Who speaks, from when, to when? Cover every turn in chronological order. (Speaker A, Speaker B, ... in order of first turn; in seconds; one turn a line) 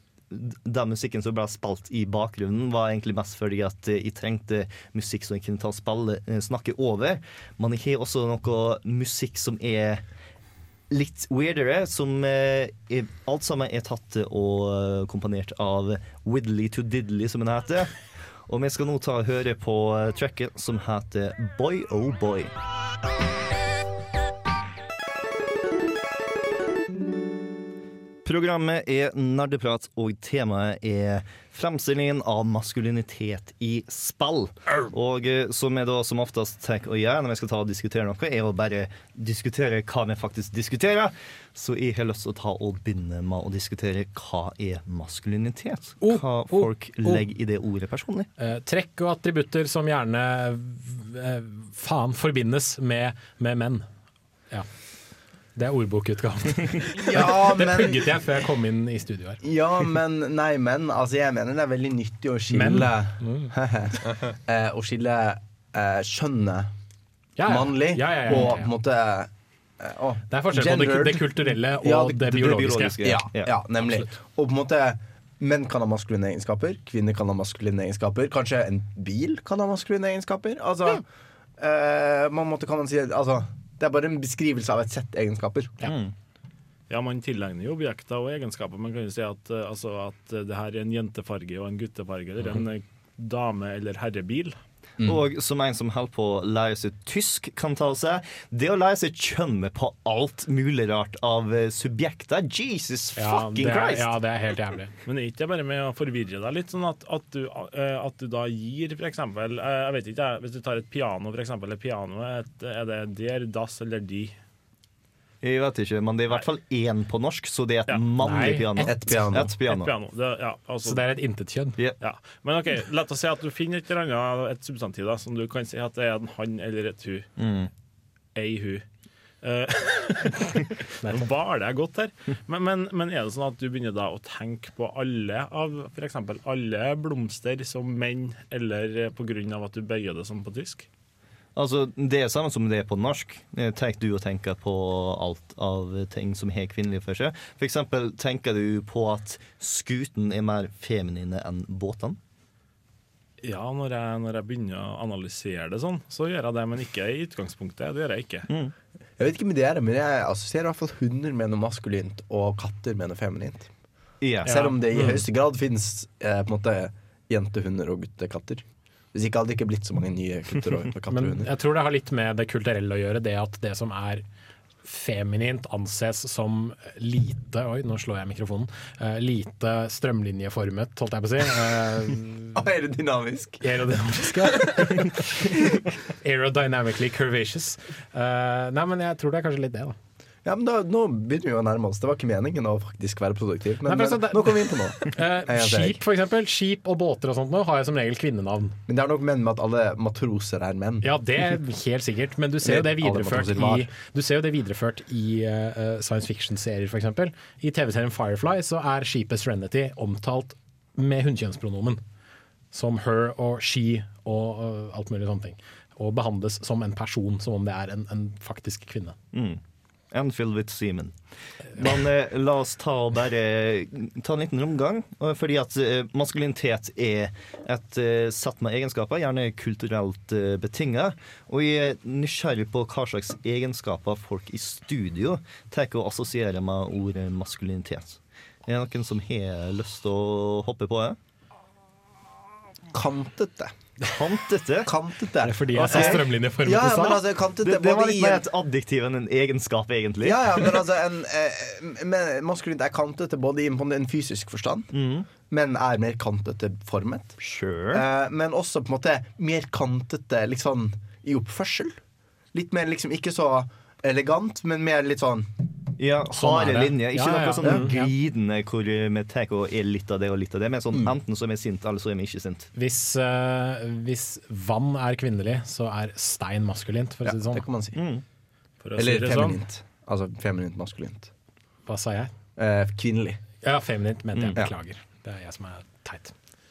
Speaker A: 0.3-10.0
Speaker A: 10.9-17.9
Speaker A: 18.5-22.5
Speaker A: 28.2-48.3
Speaker B: 46.0-47.2
Speaker B: 48.4-53.9
Speaker B: 55.5-59.4
Speaker C: 57.0-58.2
Speaker C: 59.4-66.7
Speaker B: 62.5-63.5
Speaker B: 67.4-68.7
Speaker C: 67.4-72.3
Speaker B: 70.3-73.0
Speaker A: 72.3-73.5
Speaker C: 73.0-81.0
Speaker C: 81.6-85.8
Speaker A: 85.8-86.1
Speaker D: 86.9-94.6
Speaker A: 95.0-104.1
Speaker B: 103.2-104.9
Speaker D: 105.0-114.3
Speaker A: 115.4-119.9
Speaker D: 117.9-118.5
Speaker B: 118.2-118.9
Speaker C: 118.9-119.5
Speaker D: 119.6-121.0
Speaker B: 120.8-121.8
Speaker D: 122.0-127.3
Speaker A: 127.4-127.7
Speaker D: 128.3-128.8
Speaker D: 129.4-140.9
Speaker B: 131.0-131.3
Speaker A: 141.6-152.2
Speaker D: 153.4-158.5
Speaker A: 158.5-158.7
Speaker C: 159.2-163.7
Speaker A: 164.2-164.7
Speaker C: 164.4-171.5
Speaker B: 164.5-165.2
Speaker B: 171.1-174.2
Speaker B: 174.8-182.6
Speaker C: 182.5-183.7
Speaker B: 183.6-185.6
Speaker B: 186.2-189.9
Speaker C: 190.4-196.0
Speaker B: 193.8-198.8
Speaker C: 198.9-201.1
Speaker B: 201.0-212.0
Speaker C: 202.6-203.9
Speaker B: 212.7-219.2
Speaker A: 219.3-219.6
Speaker A: 220.1-221.2
Speaker A: 221.7-241.2
Speaker C: 242.9-243.7
Speaker A: 244.0-244.9
Speaker C: 244.8-248.4
Speaker B: 245.4-247.2
Speaker A: 245.8-246.2
Speaker A: 247.6-250.8
Speaker C: 250.2-254.9
Speaker A: 254.9-255.3
Speaker C: 255.5-257.4
Speaker A: 257.4-258.0
Speaker C: 257.9-262.0
Speaker C: 262.5-265.5
Speaker A: 266.0-272.7
Speaker B: 266.3-268.1
Speaker B: 272.7-277.6
Speaker C: 277.2-278.0
Speaker A: 277.9-278.2
Speaker D: 278.8-279.6
Speaker C: 279.0-281.3
Speaker B: 281.9-282.3
Speaker C: 282.6-283.4
Speaker B: 283.6-286.3